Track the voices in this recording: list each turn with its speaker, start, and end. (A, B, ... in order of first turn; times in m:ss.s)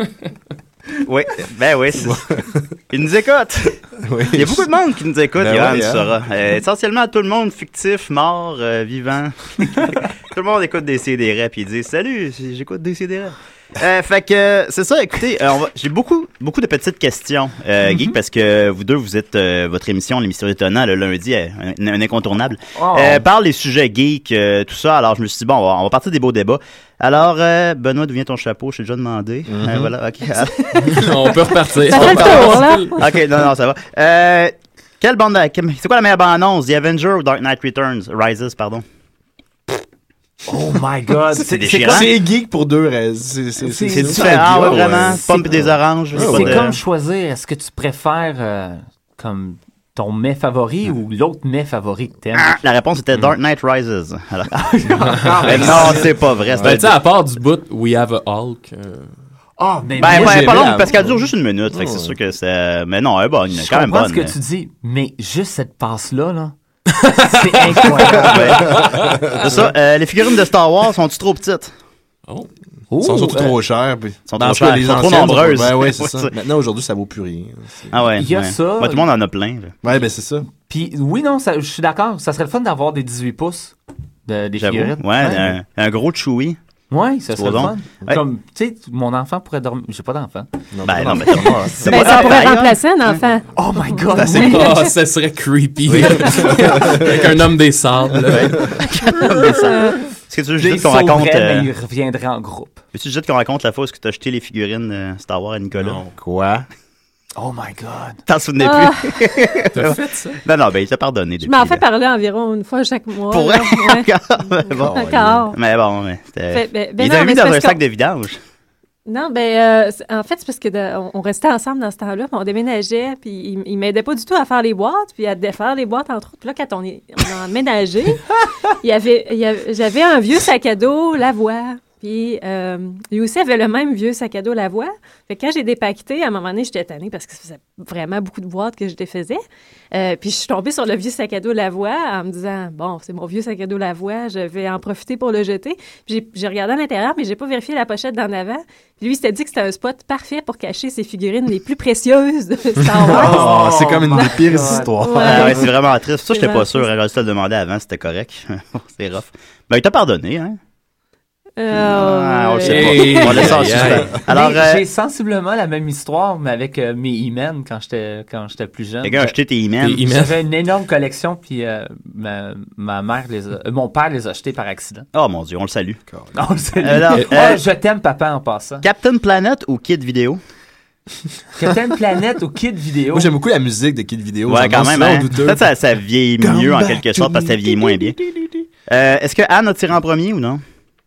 0:01.0-0:02.2 A
0:02.0-0:02.7 B
0:02.9-0:03.8 A
0:04.0-0:04.7 B
0:04.3-0:31.1 A
0:05.4-0:06.1 B
0:22.7-0:23.2 C
0:29.5-0:29.9 B
0:30.7-0:33.1 D
0:30.8-0:33.0 E
0:31.9-0:38.8 A
0:40.5-0:42.1 C
0:41.5-0:42.1 A
0:41.8-0:46.7 B
0:43.6-0:45.5 C
0:44.0-0:46.8 A
0:46.1-0:52.6 C
0:52.4-0:54.5 A
0:54.5-0:56.1 C
0:55.3-0:55.9 E
0:55.4-0:56.9 A
0:55.5-0:56.8 B
0:56.6-0:59.1 E
0:59.7-1:00.8 C
0:59.9-1:02.1 B
1:00.0-1:04.3 A
1:03.6-1:06.5 C
1:06.9-1:09.4 E
1:07.1-1:08.6 C
1:08.2-1:08.8 A
1:08.7-1:09.7 B
1:09.4-1:11.7 A
1:12.9-1:13.5 C
1:13.0-1:18.0 B
1:14.3-1:16.3 A
1:17.9-1:19.7 A
1:18.1-1:19.0 C
1:19.8-1:20.5 B
1:20.6-1:25.5 C
1:24.6-1:26.6 A
1:26.9-1:30.5 C
1:27.3-1:28.2 A
1:30.7-1:31.8 B
1:30.8-1:33.2 A
1:31.8-1:34.9 D
1:33.6-1:34.8 C
1:34.4-1:38.7 E
1:35.9-1:37.2 B
1:38.3-1:41.7 A
1:39.7-1:40.0 D
1:40.6-1:42.8 C
1:42.9-1:46.0 A
1:46.1-1:46.6 B
1:47.4-1:48.2 C
1:48.3-1:51.8 A
1:48.6-1:49.3 D
1:49.7-1:50.4 E
1:51.4-1:54.1 D
1:53.3-1:58.4 A
1:54.7-1:55.6 D
1:54.8-1:55.4 B
1:56.5-1:57.8 D
1:59.0-2:19.4 D
2:19.9-2:33.5 D
2:32.9-2:35.7 B
2:33.1-2:34.9 C
2:34.1-2:35.7 D
2:35.2-2:40.6 A
2:36.3-2:36.9 D
2:41.6-2:43.8 D
2:41.7-2:44.8 A
2:42.6-2:44.1 E
2:44.1-2:49.3 C
2:49.0-2:50.0 A
2:49.8-2:50.4 E
2:50.0-2:55.0 C
2:55.1-2:56.0 A
2:56.1-2:56.4 B
2:56.3-2:58.8 C
2:56.8-2:57.6 A
2:58.8-3:00.4 A
3:01.5-3:03.3 C
3:03.1-3:05.7 B
3:04.5-3:08.2 A
3:06.4-3:08.5 B
3:06.8-3:07.2 C
3:08.9-3:10.6 A